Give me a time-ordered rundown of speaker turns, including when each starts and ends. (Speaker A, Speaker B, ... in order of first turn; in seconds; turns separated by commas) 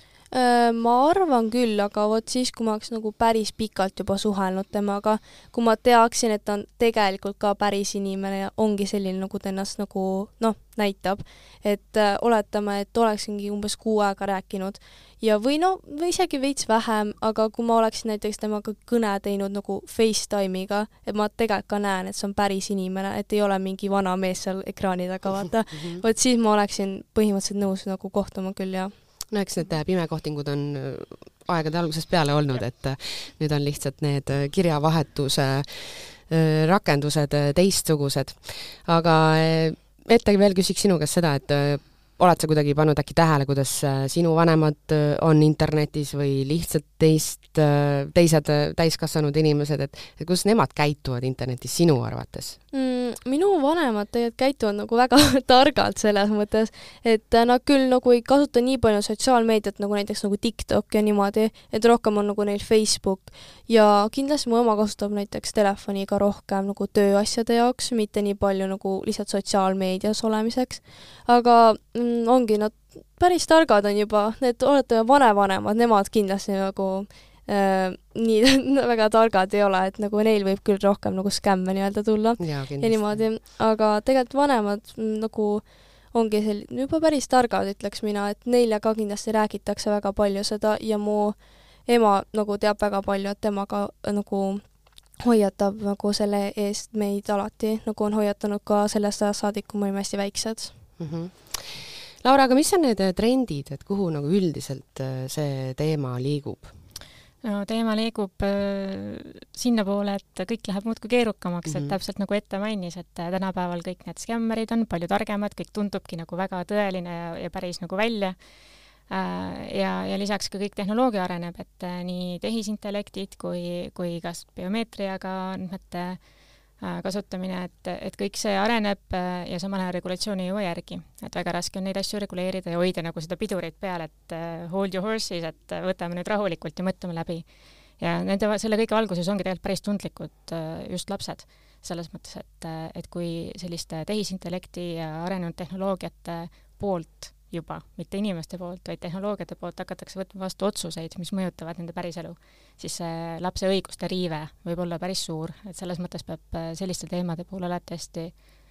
Speaker A: 0.3-28.9, Speaker B: 29.3-52.6, Speaker A: 52.7-94.6, Speaker B: 82.4-83.2, Speaker A: 95.2-100.7, Speaker B: 101.0-106.7, Speaker C: 107.4-118.3, Speaker B: 111.7-112.0, Speaker C: 119.1-126.2, Speaker C: 126.8-137.5, Speaker C: 138.0-158.4